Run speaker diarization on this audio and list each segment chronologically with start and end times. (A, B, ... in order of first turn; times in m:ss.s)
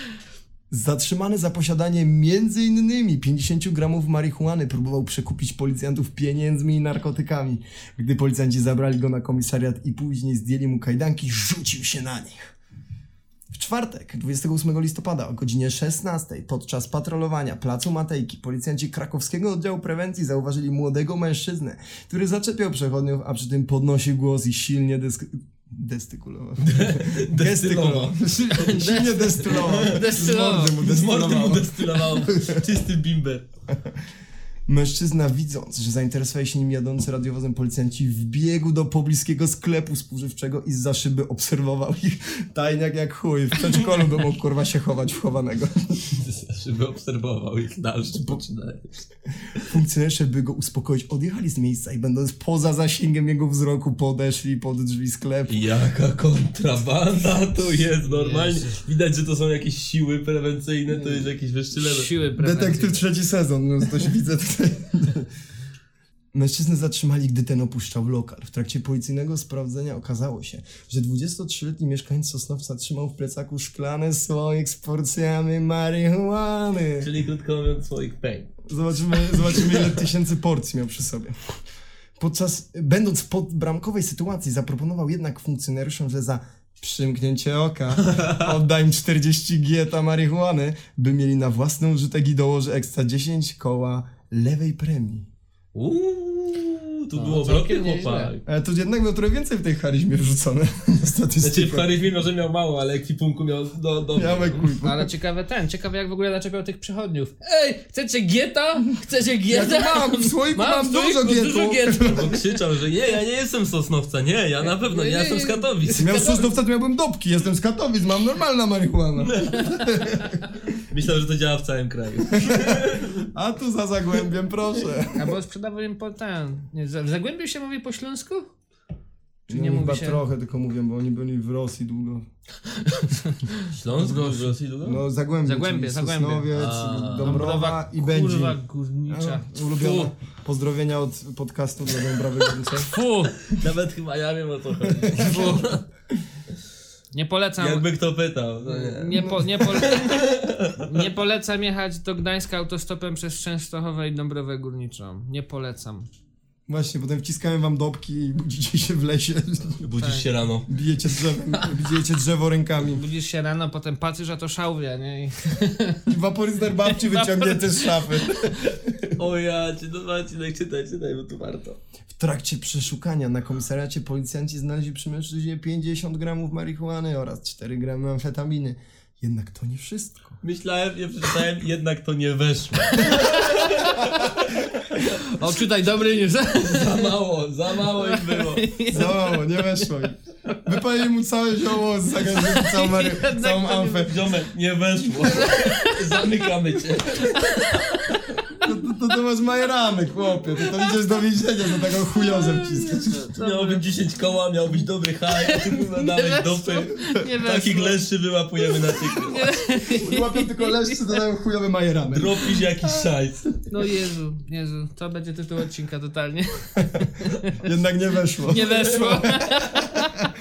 0:00.7-0:12.5 A
0:13.5-0:32.6 A
0:26.6-0:28.2 B
0:28.4-0:30.8 C
0:29.4-0:33.5 B
0:33.7-0:34.0 A
0:34.7-0:46.0 A
0:46.1-0:48.9 B
0:49.6-0:55.7 A
0:55.5-1:02.1 B
0:58.0-0:58.8 C
1:01.0-1:01.3 A
1:01.8-1:03.0 C
1:02.4-1:05.3 A
1:06.3-1:17.1 A
1:17.0-1:18.5 B
1:18.7-1:21.6 A
1:19.5-1:20.0 B
1:22.2-1:35.3 A
1:28.0-1:28.5 B
1:35.8-1:38.4 B
1:37.2-1:38.3 C
1:38.4-1:41.9 A
1:41.4-1:44.7 B
1:44.2-1:45.1 A
1:44.8-1:52.3 C
1:49.5-1:52.4 A
1:52.0-1:56.1 B
1:54.6-1:56.5 C
1:56.0-2:00.5 A
1:59.2-2:00.1 B
2:00.8-2:03.3 B
2:02.3-2:05.4 A
2:05.2-2:08.5 C
2:09.5-2:12.2 A
2:09.5-2:10.2 C
2:12.8-2:13.7 C
2:13.8-2:15.0 B
2:14.0-2:22.9 A
2:15.4-2:16.5 C
2:16.5-2:17.5 B
2:17.2-2:20.1 C
2:22.8-2:23.4 C
2:23.4-2:25.8 B
2:24.9-2:25.5 A
2:25.2-2:25.7 C
2:27.1-2:27.8 C
2:27.6-2:31.0 B
2:28.7-2:30.2 C
2:30.8-2:36.1 C
2:36.7-2:39.8 A
2:39.8-2:40.7 B
2:40.0-2:40.2 C
2:40.7-2:43.0 A
2:42.8-2:46.0 C
2:46.1-2:49.1 A
2:46.9-2:48.5 C
2:49.2-2:51.8 B
2:52.1-3:00.4 A
3:00.4-3:05.2 B
3:03.0-3:03.9 C
3:05.2-3:07.1 C
3:06.6-3:08.7 B
3:07.9-3:09.6 C
3:08.9-3:14.2 A
3:12.3-3:14.1 C
3:14.0-3:17.6 B
3:15.2-3:16.2 C
3:17.2-3:18.2 C
3:18.6-3:23.3 A
3:22.1-3:23.8 C
3:23.4-3:29.5 B
3:25.4-3:28.0 C
3:28.6-3:31.2 C
3:30.0-3:32.5 A
3:32.1-3:33.5 B
3:33.7-3:37.1 C
3:36.8-3:40.3 A
3:38.5-3:40.1 C